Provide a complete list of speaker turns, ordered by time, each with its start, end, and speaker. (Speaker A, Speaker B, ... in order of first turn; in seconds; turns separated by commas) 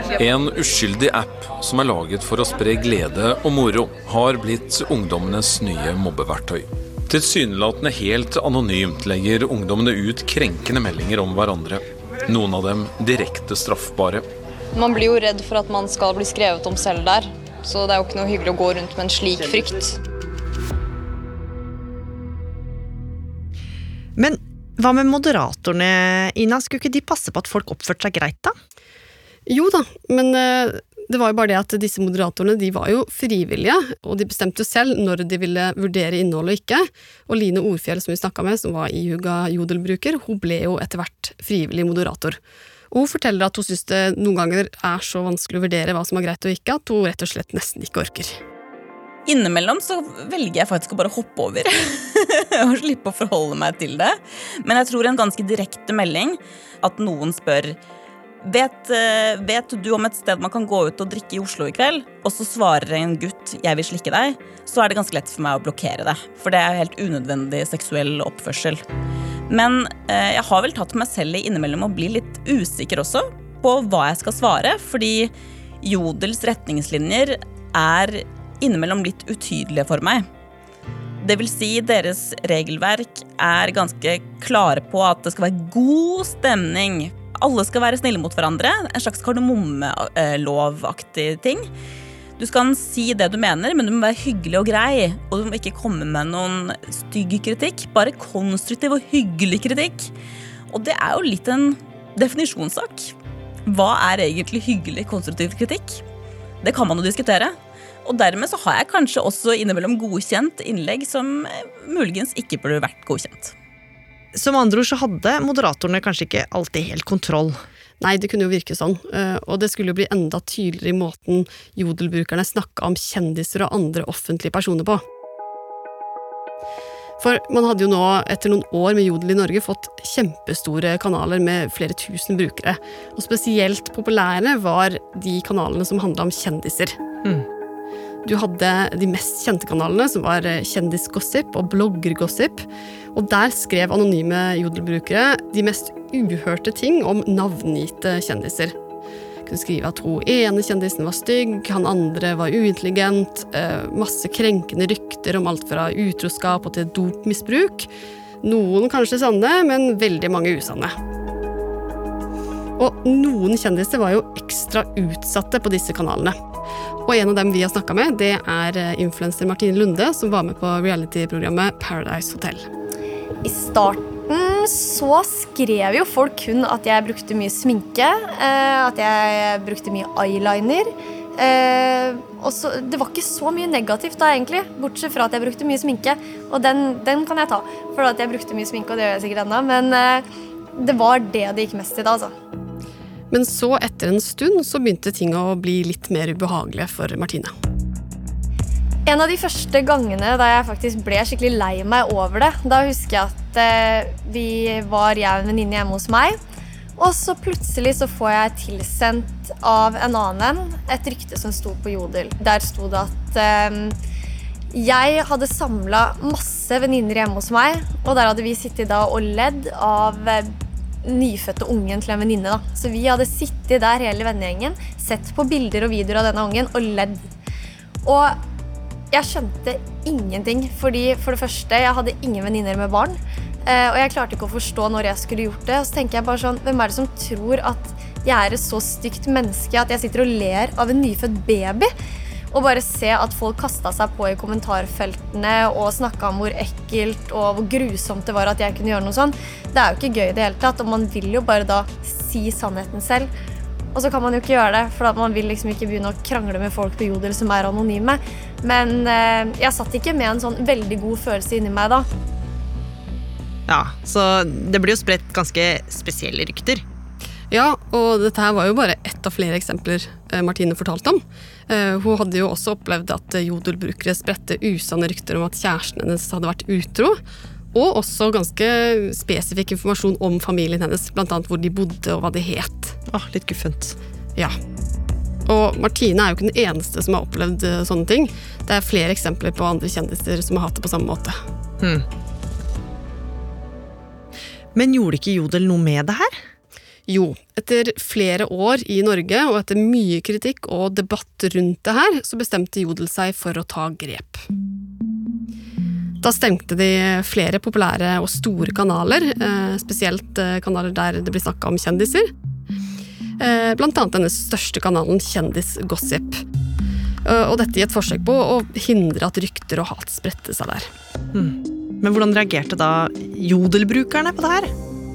Speaker A: 0.2-14.2, Speaker B: 14.8-19.9, Speaker C: 24.2-28.5, Speaker D: 29.4-42.4, Speaker D: 42.9-48.4, Speaker E: 49.2-57.8, Speaker E: 58.4-68.8, Speaker E: 69.5-80.2, Speaker E: 81.2-91.7, Speaker E: 92.4-100.1, Speaker E: 100.7-103.1, Speaker E: 103.7-106.0, Speaker E: 106.6-113.5, Speaker C: 114.3-117.6, Speaker D: 118.0-125.0, Speaker D: 127.2-136.9, Speaker D: 138.2-148.7, Speaker D: 149.4-157.9, Speaker D: 158.4-160.9, Speaker D: 162.8-166.3, Speaker D: 167.1-172.7, Speaker F: 173.4-190.2, Speaker F: 190.8-192.3, Speaker D: 193.3-197.5, Speaker F: 199.1-206.4, Speaker F: 207.0-214.0, Speaker F: 214.7-227.3, Speaker F: 228.0-228.4, Speaker F: 229.1-241.9, Speaker F: 242.5-253.3, Speaker F: 253.9-262.1, Speaker C: 263.7-266.8, Speaker D: 267.5-277.2, Speaker D: 277.7-282.9, Speaker C: 283.1-284.0, Speaker D: 285.4-291.4, Speaker C: 294.7-296.3, Speaker D: 297.1-304.4, Speaker D: 306.2-312.3, Speaker D: 313.4-316.4, Speaker D: 317.2-320.9, Speaker C: 321.3-324.7